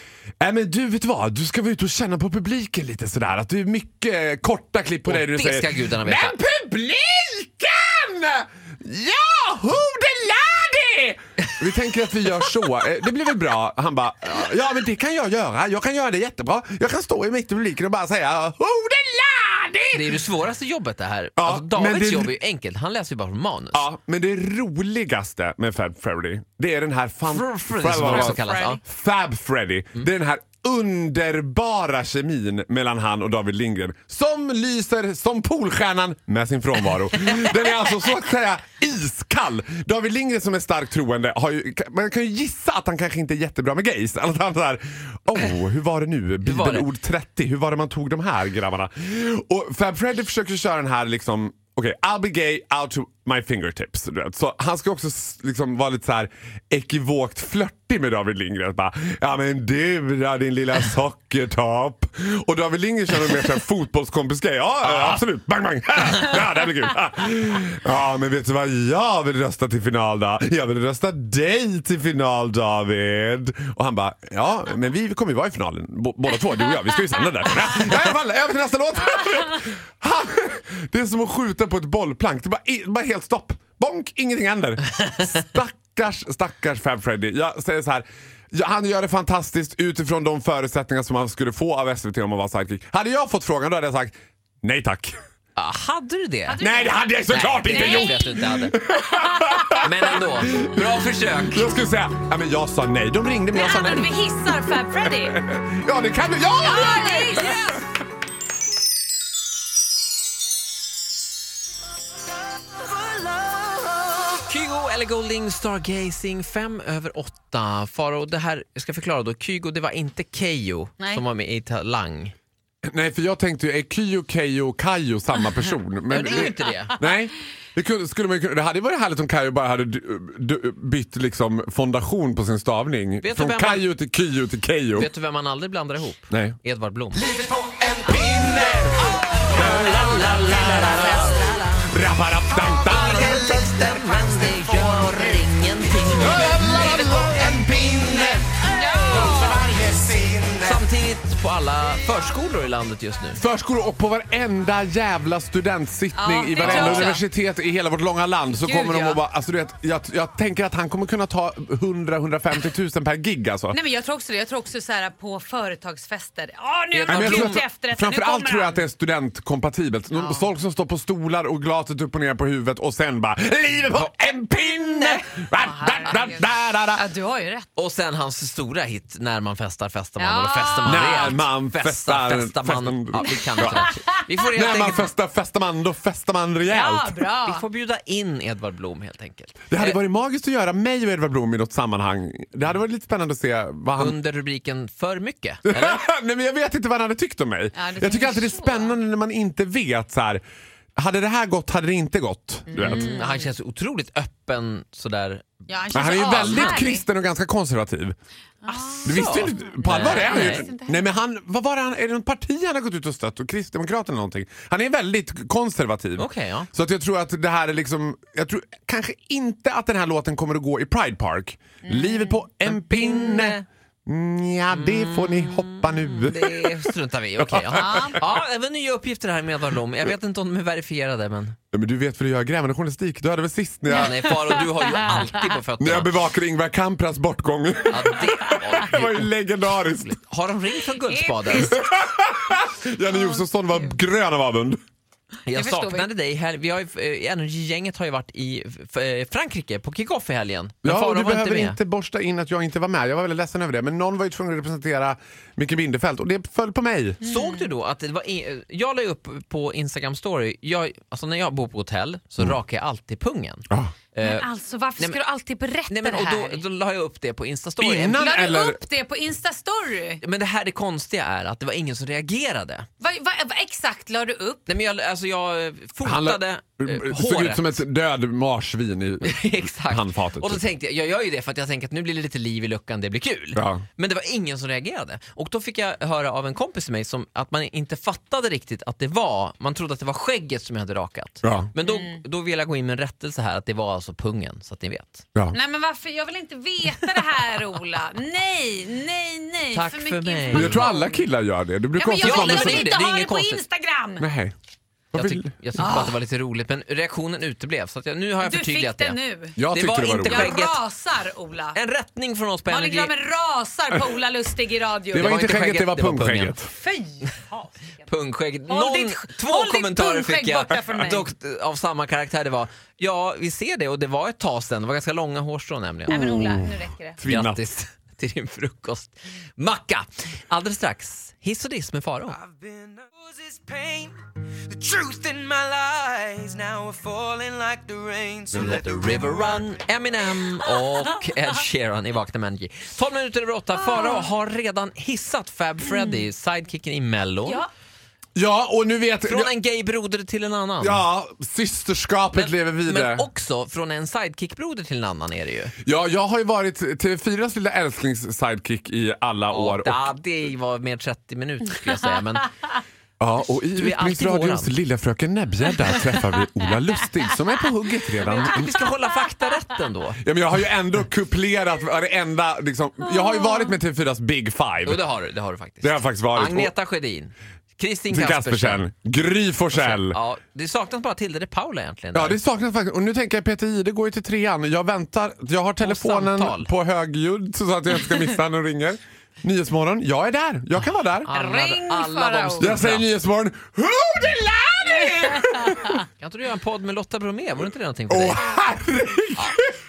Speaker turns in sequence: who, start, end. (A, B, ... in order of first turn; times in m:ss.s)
0:00.4-0:20.2 A
0:05.0-0:06.4 B
0:19.9-0:23.9 B
0:21.4-0:22.3 A
0:23.7-1:35.2 A
0:27.3-0:28.8 B
0:27.9-0:28.8 C
0:46.4-0:46.9 B
1:04.8-1:05.2 B
1:35.6-1:36.6 B
1:36.5-1:39.7 C
1:36.6-1:47.8 A
1:37.3-1:38.8 B
1:39.7-1:41.7 B
1:43.5-1:45.4 C
1:46.6-1:47.8 C
1:54.3-2:02.3 B
2:02.8-2:15.1 A
2:06.1-2:07.0 B
2:06.2-2:06.7 C
2:13.2-2:13.9 B
2:14.9-2:17.2 B
2:16.3-2:16.6 A
2:17.2-2:18.9 A
2:19.5-2:21.9 B
2:19.5-2:23.6 A
2:22.8-2:26.8 B
2:26.2-2:28.4 A
2:26.6-2:26.9 C
2:28.6-2:29.6 C
2:29.1-2:30.7 A
2:30.6-2:33.4 B
2:33.4-2:43.8 A
2:36.1-2:37.2 C
2:36.6-2:37.2 B
2:38.6-2:39.2 C
2:43.7-2:48.8 C
2:46.9-2:47.6 B
2:47.1-2:57.1 A
2:50.1-2:50.5 C
2:54.8-2:55.0 B
2:55.4-2:57.7 C
2:57.7-3:05.1 B
3:00.2-3:01.4 C
3:00.8-3:07.2 A
3:06.6-3:07.6 C
3:07.4-3:10.0 B
3:09.7-3:14.2 A
3:14.0-3:16.0 B
3:15.6-3:20.4 A
3:17.7-3:18.9 C
3:21.0-3:23.1 A
3:22.7-3:23.5 C
3:22.8-3:25.5 B
3:25.7-3:27.0 C
3:25.9-3:28.2 A
3:26.4-3:26.8 B
3:28.6-3:31.0 C
3:28.7-3:30.7 B
3:29.0-3:48.2 A
3:36.2-3:36.7 B
3:41.9-3:42.2 C
3:42.6-3:43.6 B
3:44.7-3:51.6 B
3:47.7-3:48.2 C
3:51.7-3:54.6 A
3:53.9-3:56.1 B
3:54.1-3:55.4 C
3:55.8-4:00.2 A
3:57.9-4:01.7 B
4:01.0-4:01.8 C
4:01.5-4:04.8 A
4:03.1-4:04.0 C
4:05.5-4:11.8 B
4:05.5-4:06.1 C
4:10.8-4:17.2 A
4:17.2-4:25.2 B
4:17.2-4:17.7 C
4:24.2-4:26.6 C
4:25.9-4:28.2 B
4:27.8-4:28.8 A
4:28.0-4:30.2 C
4:30.2-4:32.9 B
4:33.0-4:34.7 C
4:34.7-4:37.8 B
4:36.0-4:40.6 A
4:39.2-4:55.2 B
4:43.5-4:43.8 A
4:51.4-4:51.7 A
4:51.8-4:52.2 C
4:55.5-5:01.3 C
4:59.7-5:00.9 B
5:00.5-5:02.9 A
5:01.9-5:04.3 C
5:02.2-5:03.6 B
5:04.2-5:04.5 A
5:05.1-5:06.1 A
5:05.1-5:10.8 B
5:05.8-5:06.2 C
5:08.4-5:09.6 C
5:09.6-5:10.6 A
5:10.2-5:11.8 C
5:11.7-5:13.1 B
5:12.7-5:15.3 C
5:15.1-5:16.7 A
5:15.1-5:16.6 B
5:16.7-5:18.0 C
5:18.0-5:26.4 B
5:18.7-5:21.3 C
5:26.1-5:27.2 C
5:26.1-5:27.6 A
5:27.2-5:32.4 B
5:32.4-5:34.2 D
5:34.7-5:39.6 D
5:38.5-5:47.6 B
5:43.9-5:44.2 C
5:48.4-5:49.5 A
5:49.2-5:51.0 B
5:50.8-5:53.3 A
5:52.3-5:55.7 B
5:55.8-6:00.1 A
5:59.5-6:02.5 B
6:03.2-6:08.7 A
6:03.7-6:04.7 B
6:08.4-6:10.2 B
6:10.2-6:15.0 A
6:14.8-6:18.8 B
6:15.8-6:16.7 A
6:18.1-6:20.2 A
6:19.7-6:22.4 B
6:22.1-6:31.3 A
6:25.8-6:26.7 B
6:31.2-6:33.1 B
6:31.3-6:32.8 C
6:32.6-6:36.0 A
6:35.4-6:35.8 C
6:36.2-6:38.4 B
6:38.1-6:39.8 A